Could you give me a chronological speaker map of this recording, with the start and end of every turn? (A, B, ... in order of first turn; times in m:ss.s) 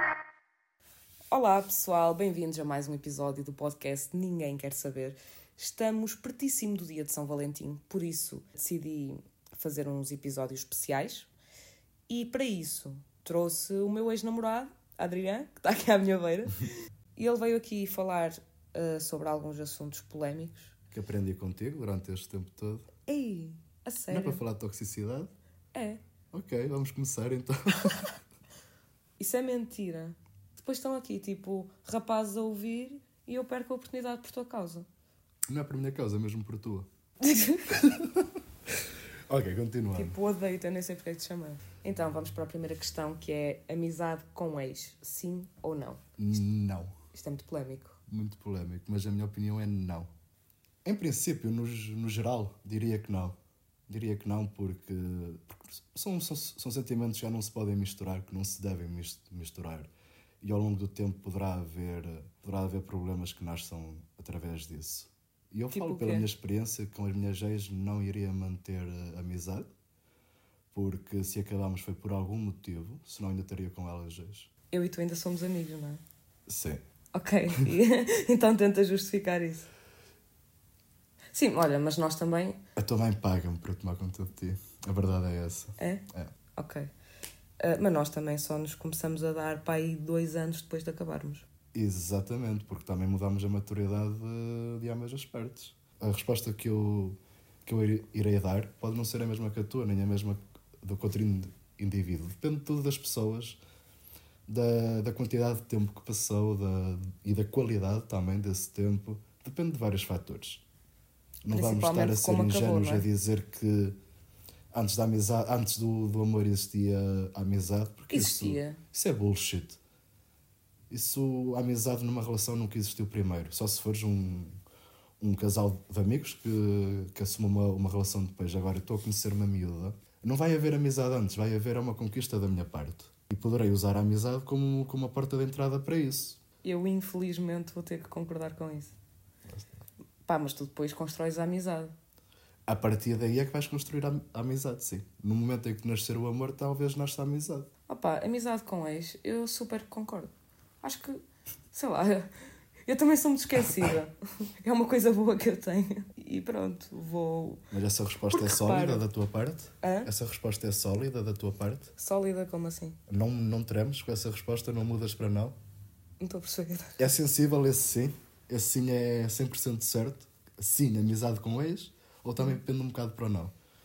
0:01.3-0:11.3 A
0:12.1-0:20.7 A
0:20.9-0:22.9 B
0:23.0-0:24.4 A
0:24.1-0:25.3 B
0:25.7-0:26.0 A
0:26.3-0:28.1 B
0:29.2-0:34.9 A
0:35.5-0:36.9 B
0:37.2-0:37.7 A
0:37.7-0:38.3 B
0:39.3-0:40.1 B
0:39.9-0:46.0 A
0:46.2-0:46.9 B
0:47.1-0:48.0 A
0:48.1-0:50.1 B
0:50.8-0:53.4 B
0:53.9-0:59.9 B
1:00.4-1:09.7 B
1:05.7-1:06.3 A
1:10.7-1:14.5 B
1:14.7-1:16.0 A
1:16.5-1:16.8 B
1:17.1-1:19.7 A
1:21.3-1:22.6 A
1:22.8-1:26.3 B
1:25.8-1:26.9 A
1:27.6-1:31.4 A
1:31.7-1:43.6 B
1:44.5-1:50.6 B
1:51.4-1:54.0 B
1:51.4-1:53.1 A
1:54.7-1:59.8 B
1:58.1-1:58.8 A
2:00.9-2:04.6 B
2:05.2-2:16.4 B
2:16.6-2:18.9 A
2:19.5-2:19.8 B
2:20.2-2:21.9 A
2:22.7-2:27.7 B
2:27.9-2:31.2 A
2:31.7-2:32.3 A
2:32.9-2:37.7 A
2:37.7-2:41.9 B
2:38.3-2:39.0 A
2:39.8-2:40.1 A
2:42.0-2:43.0 A
2:43.1-2:45.5 B
2:46.2-2:47.0 A
2:47.0-2:53.5 B